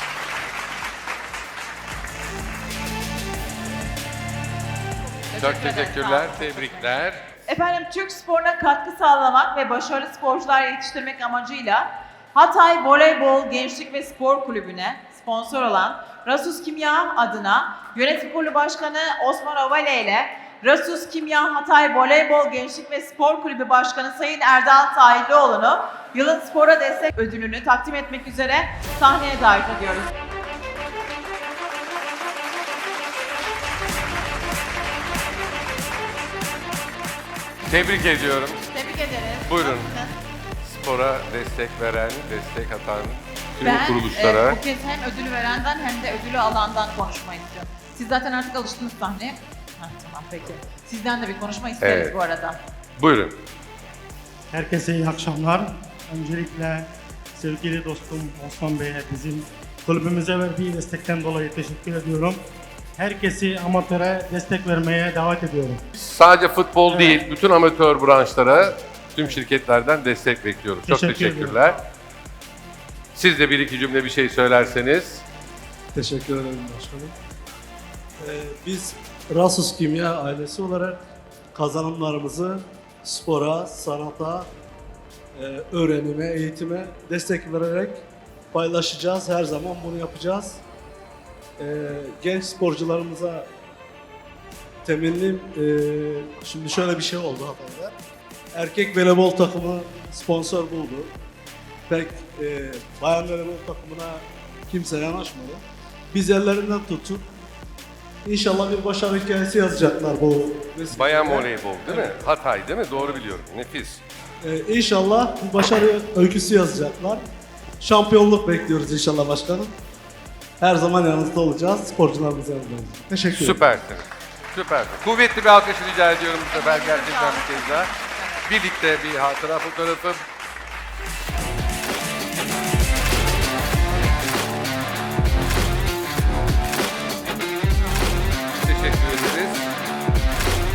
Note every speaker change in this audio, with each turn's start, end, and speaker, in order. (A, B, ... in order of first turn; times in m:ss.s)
0:05.2-0:30.1 A
0:05.4-0:07.2 B
0:37.7-0:38.7 B
0:38.7-0:40.2 A
0:39.4-0:39.9 B
0:40.6-0:44.6 B
0:43.6-0:52.6 A
0:51.8-0:52.1 B
0:53.0-0:53.4 B
0:54.5-1:02.4 C
1:03.0-1:05.8 C
1:06.0-1:11.8 B
1:06.9-1:07.2 C
1:10.9-1:11.8 C
1:13.2-1:15.2 B
1:15.9-1:17.1 D
1:18.2-1:21.0 D
1:21.6-1:24.5 D
1:25.4-1:30.6 D
1:31.6-1:33.5 D
1:34.8-1:38.0 D
1:38.6-1:41.1 D
1:41.9-1:47.3 D
1:48.2-1:52.2 D
1:50.9-1:54.0 B
1:52.9-1:53.3 D
1:54.4-1:57.2 D
1:57.8-1:59.7 D
2:00.6-2:03.7 D
2:03.3-2:07.9 B
2:06.5-2:08.5 A
2:08.5-2:10.2 B
2:18.5-2:19.7 B